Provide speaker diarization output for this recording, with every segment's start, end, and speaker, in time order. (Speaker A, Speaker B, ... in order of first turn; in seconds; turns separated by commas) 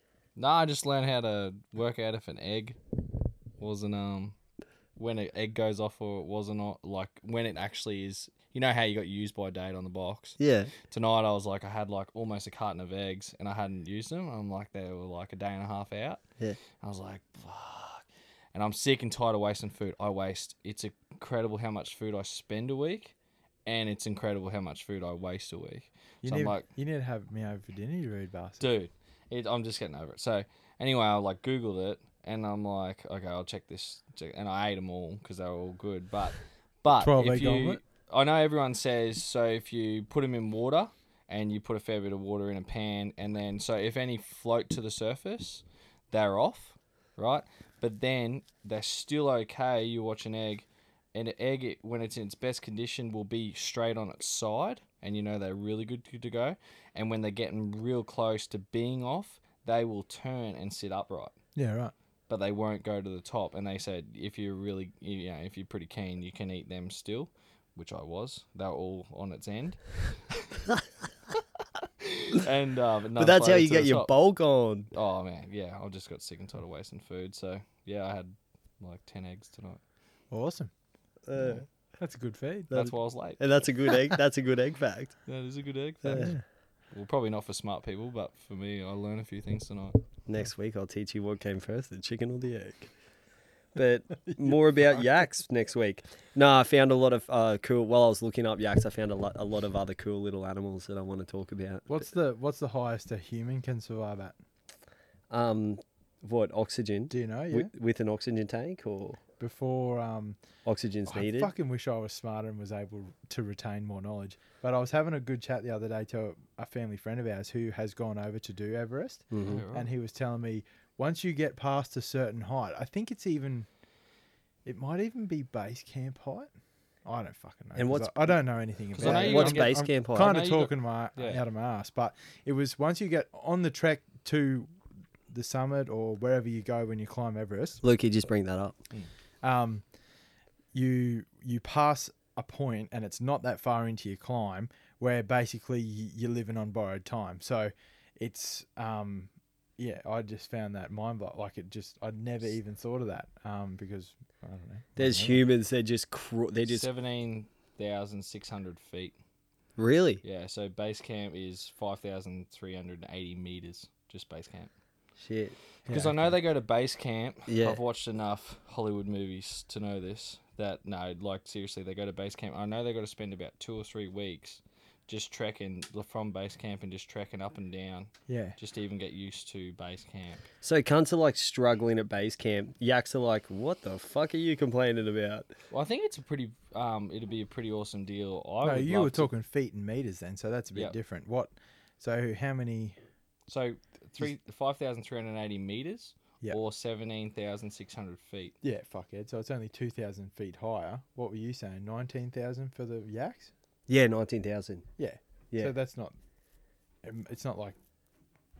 Speaker A: 0.4-2.8, Speaker A: 3.6-4.3, Speaker A: 5.0-16.2, Speaker B: 10.4-10.7, Speaker A: 16.8-23.1, Speaker A: 23.7-26.6, Speaker C: 26.2-28.7, Speaker A: 28.6-61.4, Speaker C: 37.0-37.8, Speaker C: 61.6-61.9, Speaker A: 62.3-70.4, Speaker A: 72.0-74.1, Speaker B: 73.2-74.9, Speaker A: 74.9-79.8, Speaker C: 80.3-80.7, Speaker B: 81.3-81.7, Speaker C: 82.0-82.7, Speaker A: 82.7-83.4, Speaker B: 82.7-85.2, Speaker A: 85.3-90.0, Speaker B: 86.0-86.3, Speaker C: 86.1-86.4, Speaker B: 90.3-92.9, Speaker B: 93.8-101.9, Speaker C: 101.9-104.4, Speaker B: 105.3-109.2, Speaker C: 107.1-107.7, Speaker C: 109.4-110.4, Speaker B: 110.7-111.5, Speaker C: 111.1-123.7, Speaker B: 119.3-119.6, Speaker A: 119.4-119.9, Speaker C: 124.7-126.5, Speaker C: 127.0-134.7, Speaker B: 127.8-128.3, Speaker A: 128.9-131.4, Speaker B: 129.0-130.3, Speaker C: 135.3-137.8, Speaker B: 137.8-138.8, Speaker C: 139.4-139.8, Speaker C: 140.7-155.4, Speaker B: 155.0-156.9, Speaker A: 156.7-159.2, Speaker B: 159.8-160.2, Speaker A: 160.2-164.7, Speaker B: 165.2-165.6, Speaker C: 165.9-166.3, Speaker A: 165.9-180.4, Speaker B: 167.5-167.8, Speaker C: 178.3-178.6, Speaker B: 180.6-185.5, Speaker A: 185.7-189.3, Speaker C: 188.6-193.0, Speaker A: 193.5-198.6, Speaker C: 198.6-203.5, Speaker B: 203.9-204.9, Speaker C: 205.0-206.2, Speaker C: 207.0-207.8